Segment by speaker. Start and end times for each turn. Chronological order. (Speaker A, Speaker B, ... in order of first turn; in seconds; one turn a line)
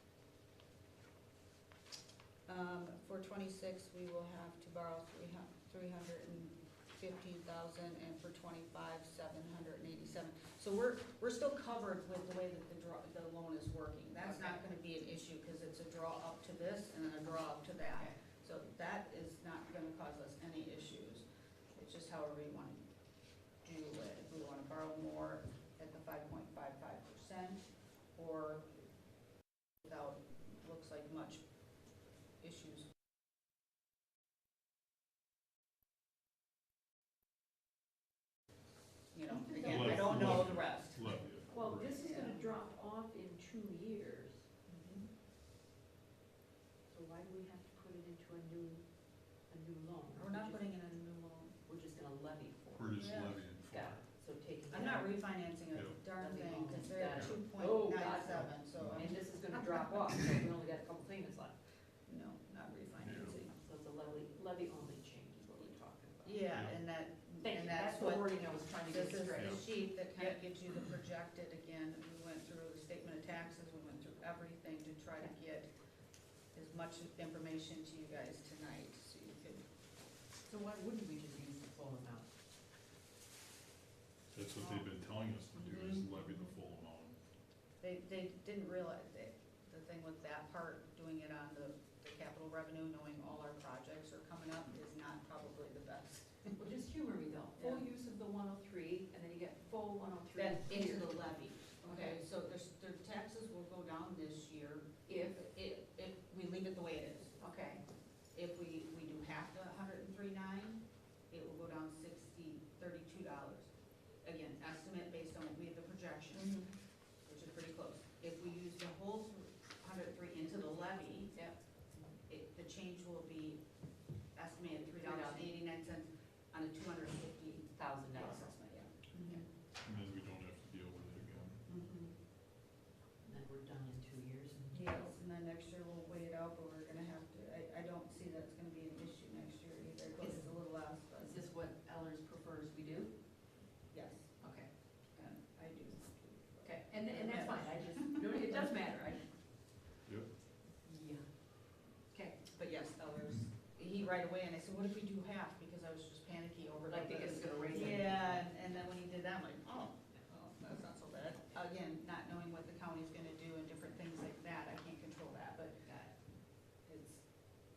Speaker A: 2.5-22.9
Speaker B: 14.2-14.6
Speaker A: 23.5-28.7
Speaker A: 29.8-31.5
Speaker A: 32.4-32.9
Speaker A: 39.1-41.1
Speaker B: 39.3-40.5
Speaker C: 39.6-42.0
Speaker B: 41.5-44.5
Speaker A: 41.8-42.5
Speaker A: 44.7-45.0
Speaker B: 46.9-48.9
Speaker B: 49.4-50.7
Speaker A: 50.2-51.5
Speaker B: 51.6-55.2
Speaker C: 52.8-54.0
Speaker A: 52.9-53.5
Speaker A: 54.7-59.6
Speaker C: 55.7-56.0
Speaker B: 56.2-61.6
Speaker C: 58.8-59.2
Speaker A: 62.1-63.5
Speaker C: 63.0-63.4
Speaker B: 63.5-66.5
Speaker A: 66.2-75.7
Speaker C: 66.5-66.8
Speaker B: 67.4-70.4
Speaker A: 76.5-79.6
Speaker B: 80.5-82.3
Speaker C: 84.3-87.2
Speaker A: 84.6-84.8
Speaker A: 85.5-86.5
Speaker A: 87.8-96.5
Speaker B: 96.6-101.1
Speaker A: 97.6-97.8
Speaker A: 100.3-107.4
Speaker B: 101.8-102.2
Speaker B: 105.1-105.5
Speaker B: 107.4-107.8
Speaker A: 108.3-113.7
Speaker A: 114.2-116.6
Speaker B: 116.3-116.7
Speaker A: 117.2-121.5
Speaker B: 121.3-122.1
Speaker A: 122.3-123.6
Speaker A: 124.3-129.4
Speaker B: 124.8-125.5
Speaker B: 127.7-128.5
Speaker B: 129.2-129.4
Speaker C: 129.8-131.6
Speaker A: 131.7-132.1
Speaker B: 133.2-135.2
Speaker A: 134.7-141.5
Speaker B: 140.2-143.2
Speaker A: 143.9-144.4
Speaker B: 144.4-144.7
Speaker A: 145.1-148.6
Speaker B: 146.6-149.3
Speaker B: 150.8-151.3
Speaker B: 152.1-152.4
Speaker A: 152.5-165.9
Speaker B: 156.9-158.5
Speaker B: 165.8-166.1
Speaker A: 166.8-167.2